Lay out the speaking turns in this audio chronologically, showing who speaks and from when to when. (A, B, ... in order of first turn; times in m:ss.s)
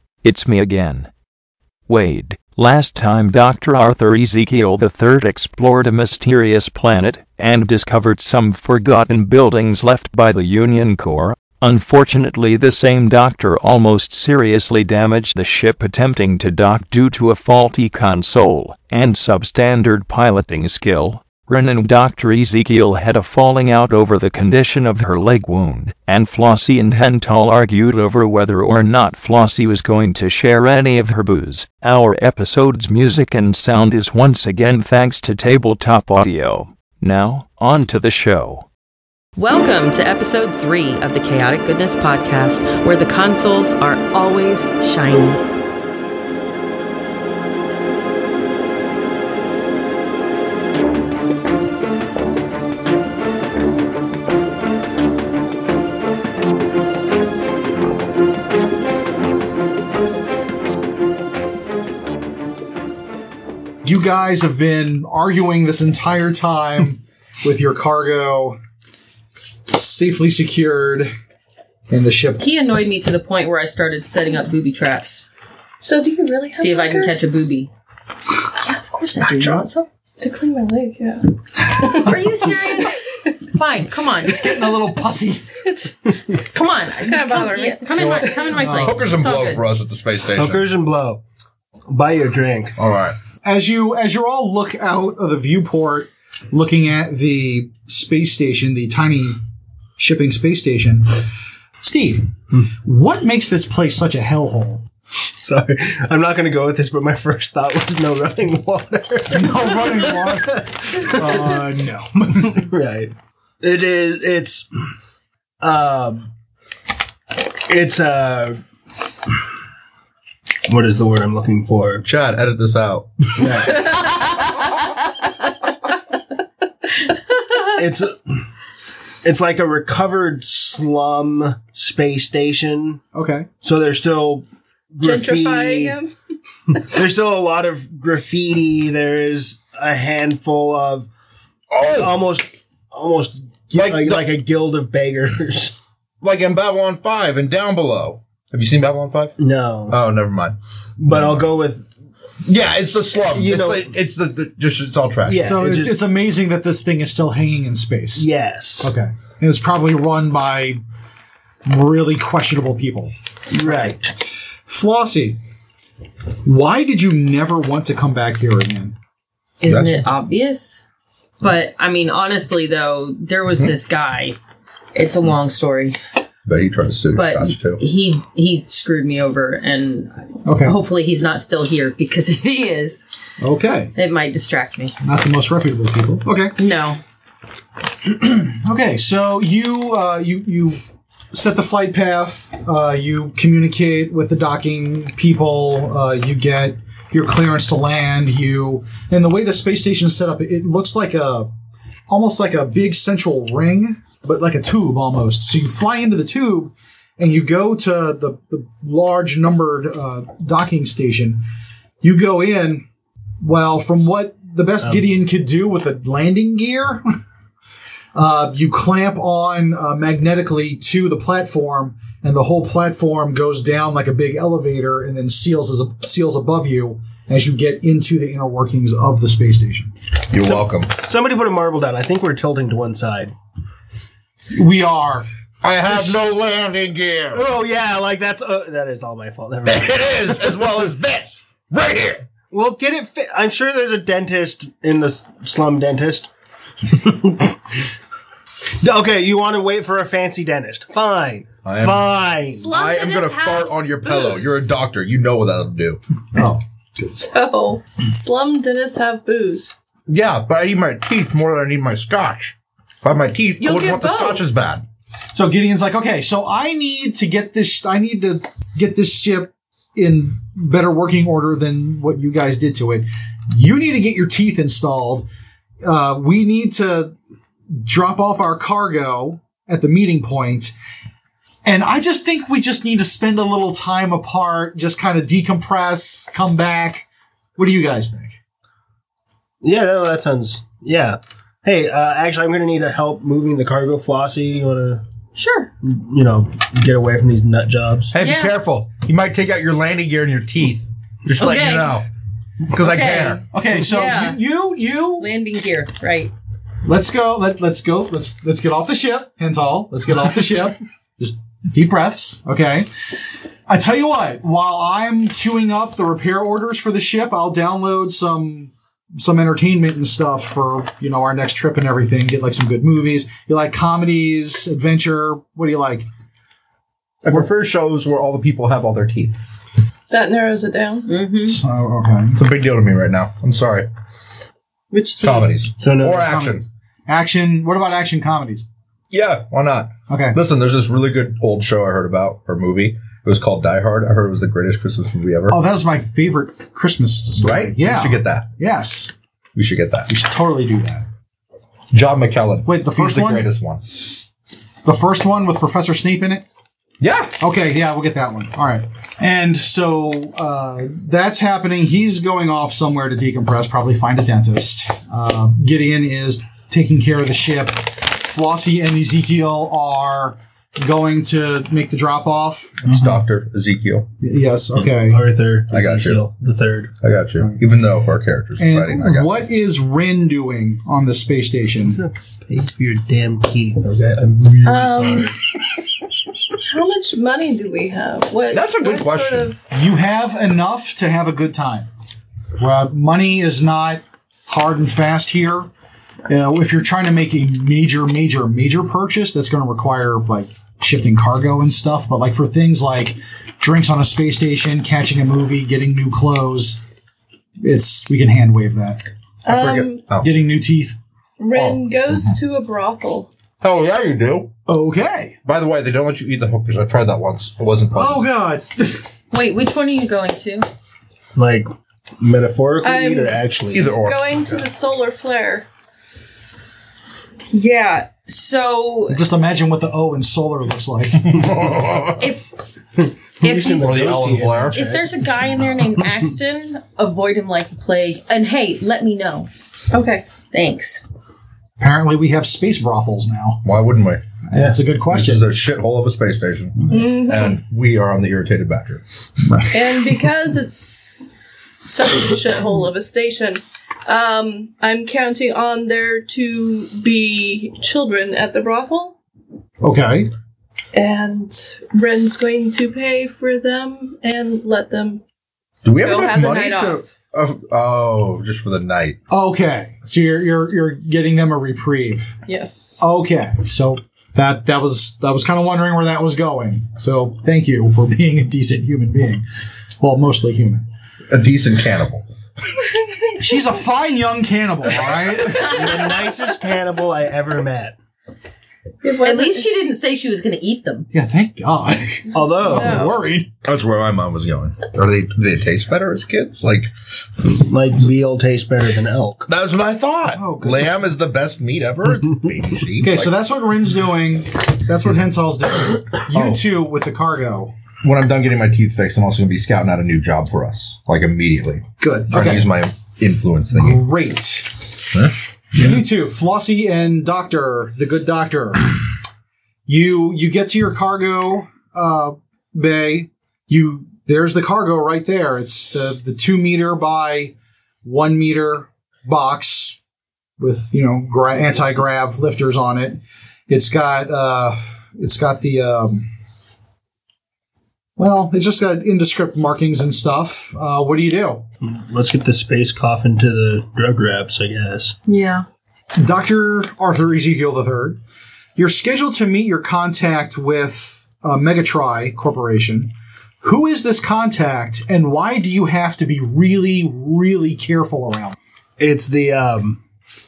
0:00.2-0:01.1 A
0:01.9-0:38.7 A
0:39.4-0:45.4 B
1:03.8-1:08.6 C
1:09.7-1:11.1 C
1:11.9-1:12.4 C
1:12.4-1:15.2 B
1:15.8-1:17.1 D
1:16.6-1:17.7 B
1:18.6-1:19.9 B
1:19.2-1:19.7 E
1:20.2-1:22.2 D
1:21.6-1:24.7 B
1:21.8-1:22.8 C
1:24.2-1:25.6 C
1:26.3-1:29.6 B
1:26.9-1:28.6 D
1:28.0-1:30.7 E
1:28.5-1:29.1 C
1:30.3-1:31.2 F
1:31.9-1:32.8 F
1:32.8-1:33.2 E
1:33.4-1:39.4 C
1:40.0-1:44.8 C
1:45.4-1:51.6 F
1:49.3-1:52.7 C
1:52.4-1:54.7 F
1:55.6-1:56.3 F
1:57.7-1:58.6 F
2:00.6-2:02.0 F
2:02.0-2:03.8 E
2:07.3-2:07.6 D
2:07.7-2:08.4 F
2:09.2-2:13.0 F
2:13.1-2:13.5 C
2:13.6-2:16.0 F
2:15.0-2:16.1 D
2:16.8-2:21.1 F
2:21.7-2:22.2 E
2:21.9-2:25.8 F
2:23.8-2:24.3 E
2:26.2-2:29.4 E
2:29.4-2:30.0 F
2:29.9-2:30.6 E
2:31.0-2:31.9 F
2:31.1-2:31.4 E
2:32.4-2:35.4 E
2:33.3-2:33.9 F
2:35.2-2:36.0 F
2:35.4-2:38.3 C
2:38.2-2:38.9 F
2:38.8-2:40.8 C
2:41.7-2:43.1 C
2:43.5-2:44.1 F
2:43.7-2:44.0 C
2:44.7-2:45.4 C
2:46.4-2:49.0 C
2:49.6-2:50.9 B
2:49.7-2:50.0 E
2:51.4-2:54.4 B
2:55.0-2:56.0 B
2:56.5-2:57.8 E
2:57.2-3:03.0 B
3:00.4-3:00.8 C
3:03.4-3:03.9 C
3:04.0-3:05.0 B
3:05.0-3:06.6 C
3:06.6-3:07.0 B
3:08.0-3:10.8 C
3:11.3-3:21.5 C
3:22.1-3:31.4 C
3:32.0-3:32.9 C
3:33.4-3:37.1 C
3:38.2-3:49.9 C
3:50.3-3:50.9 E
3:50.4-3:53.3 F
3:54.5-3:55.3 C
3:55.6-3:57.4 E
3:57.3-4:00.4 F
3:59.7-4:02.2 E
4:02.5-4:06.3 F
4:06.8-4:07.6 F
4:08.8-4:12.7 F
4:11.6-4:12.0 E
4:12.6-4:14.5 D
4:12.7-4:16.0 E
4:16.3-4:17.2 C
4:17.3-4:19.8 D
4:20.1-4:24.8 E
4:23.6-4:24.4 D
4:25.3-4:35.3 C
4:35.8-4:37.1 C
4:37.7-4:40.8 C
4:41.6-4:48.4 C
4:49.6-4:55.0 F
4:55.3-4:55.7 B
4:55.8-4:58.1 F
4:58.1-5:02.1 E
4:58.2-4:58.6 B
5:01.4-5:02.0 B
5:02.6-5:03.4 E
5:02.8-5:04.4 B
5:03.4-5:05.3 C
5:05.2-5:06.3 B
5:06.8-5:13.1 C
5:13.7-5:26.1 C
5:27.2-5:29.4 E
5:30.1-5:31.1 D
5:31.1-5:31.6 B
5:31.4-5:32.4 C
5:32.4-5:33.9 E
5:34.9-5:35.2 D
5:35.2-5:36.6 E
5:35.2-5:35.5 B
5:35.8-5:36.3 F
5:36.1-5:38.7 C
5:39.1-5:45.6 E
5:40.1-5:40.4 C
5:45.5-5:49.1 C
5:47.4-5:48.5 E
5:49.5-5:50.1 E
5:50.1-5:51.1 C
5:51.9-5:54.2 E
5:52.6-5:53.5 C
5:54.8-5:56.4 C
5:57.0-5:57.4 E
5:57.4-6:13.2 C
6:12.8-6:14.1 E
6:14.2-6:15.2 C
6:14.8-6:16.9 F
6:15.7-6:16.2 E
6:17.0-6:19.3 E
6:18.6-6:22.0 C
6:21.9-6:25.4 F
6:24.6-6:25.3 D
6:26.7-6:29.6 D
6:28.5-6:29.5 E
6:29.7-6:31.9 C
6:32.6-6:35.7 C
6:36.3-6:46.8 C
6:47.6-6:49.0 C
6:49.4-6:50.0 D
6:49.5-6:50.3 E
6:49.7-6:51.0 C
6:51.4-6:53.3 D
6:51.6-6:52.3 E
6:53.6-6:54.5 E
6:54.7-6:55.4 C
6:55.4-6:58.3 E
6:57.9-6:59.0 C
6:59.3-7:00.6 B
7:01.3-7:04.0 F
7:02.8-7:03.4 D
7:03.7-7:04.6 E
7:03.9-7:05.7 D
7:07.4-7:09.2 B
7:09.1-7:11.5 C
7:11.2-7:12.2 E
7:12.2-7:12.6 B
7:13.4-7:15.2 F
7:13.4-7:14.1 B
7:13.7-7:14.8 E
7:14.7-7:19.5 B
7:19.9-7:20.2 D
7:20.4-7:21.0 B
7:21.8-7:23.6 C
7:23.6-7:24.2 E
7:24.5-7:25.5 C
7:25.1-7:29.0 E
7:26.9-7:27.6 D
7:29.4-7:30.3 C
7:29.7-7:39.2 D
7:39.8-7:40.3 C
7:40.9-7:45.2 D
7:45.8-7:49.2 E
7:46.0-7:47.1 D
7:49.3-7:52.4 C
7:52.4-7:53.0 D
7:53.0-7:59.4 C
8:00.0-8:00.8 C
8:01.3-8:02.3 E
8:03.4-8:05.9 C
8:05.6-8:08.0 F
8:09.0-8:09.6 D
8:09.2-8:11.1 B
8:11.1-8:13.5 C
8:12.3-8:13.1 F
8:12.7-8:13.1 D
8:13.6-8:16.9 E
8:17.4-8:19.5 F
8:19.5-8:23.3 E
8:20.3-8:21.0 C
8:23.0-8:27.7 C
8:26.3-8:26.6 E
8:28.0-8:34.0 E
8:32.0-8:32.7 C
8:33.7-8:34.8 C
8:35.1-8:35.9 E
8:35.7-8:39.0 C
8:39.9-8:50.0 C
8:50.6-8:56.3 C
8:58.2-9:01.7 C
9:01.8-9:05.2 F
9:05.3-9:05.6 D
9:06.2-9:08.2 C
9:08.8-9:18.6 C
9:19.0-9:20.0 F